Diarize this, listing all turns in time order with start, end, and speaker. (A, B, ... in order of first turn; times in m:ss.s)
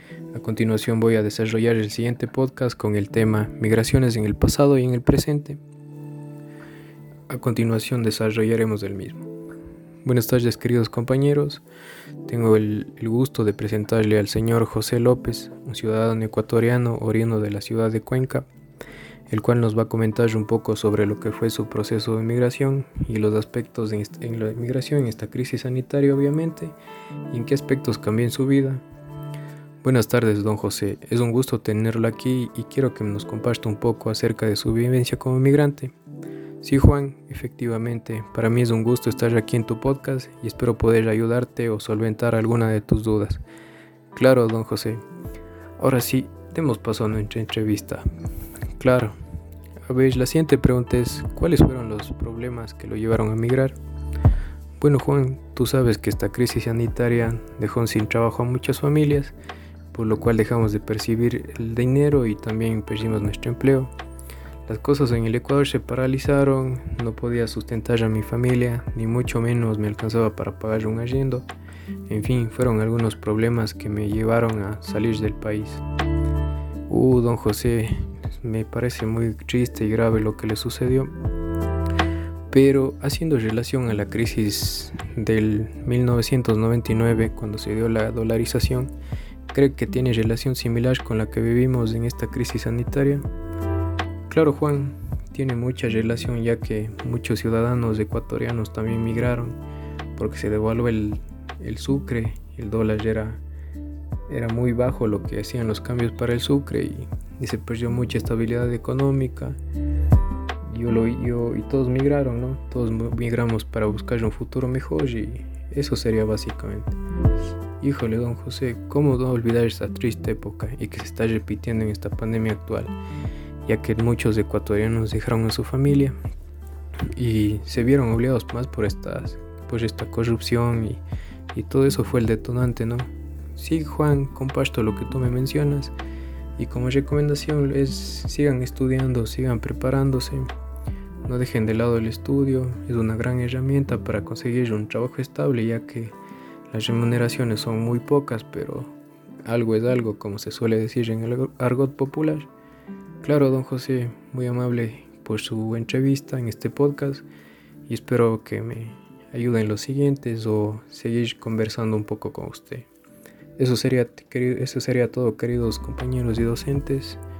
0:00.3-0:05.6 A
0:07.3-0:09.3 A
0:10.0-0:11.6 A
0:12.2-0:18.5 A
0:19.3-0:26.7 A
0:27.3-0:28.8 A
0:29.8-0:35.9 A
0:36.6-0:43.4 A
0:44.1-0:45.0 A
0:45.8-0:48.0 A
0:48.8-0:49.1 A
0:49.9-0:53.8 A
0:54.8-0:59.3 A
0:59.9-1:03.9 A
1:04.6-1:11.5 A
1:12.1-1:15.8 A
1:16.9-1:21.1 A
1:22.5-1:28.9 A
1:29.5-1:33.2 A
1:34.3-1:39.6 A
1:40.2-1:43.4 A
1:44.3-1:49.6 A
1:50.6-1:56.9 A
1:57.8-2:02.9 A
2:03.6-2:06.2 A
2:07.1-2:11.0 A
2:11.5-2:15.9 A
2:16.6-2:20.4 A
2:21.2-2:26.1 A
2:26.7-2:28.9 A
2:29.4-2:32.5 A
2:33.2-2:37.2 A
2:37.9-2:42.9 A
2:43.6-2:47.2 A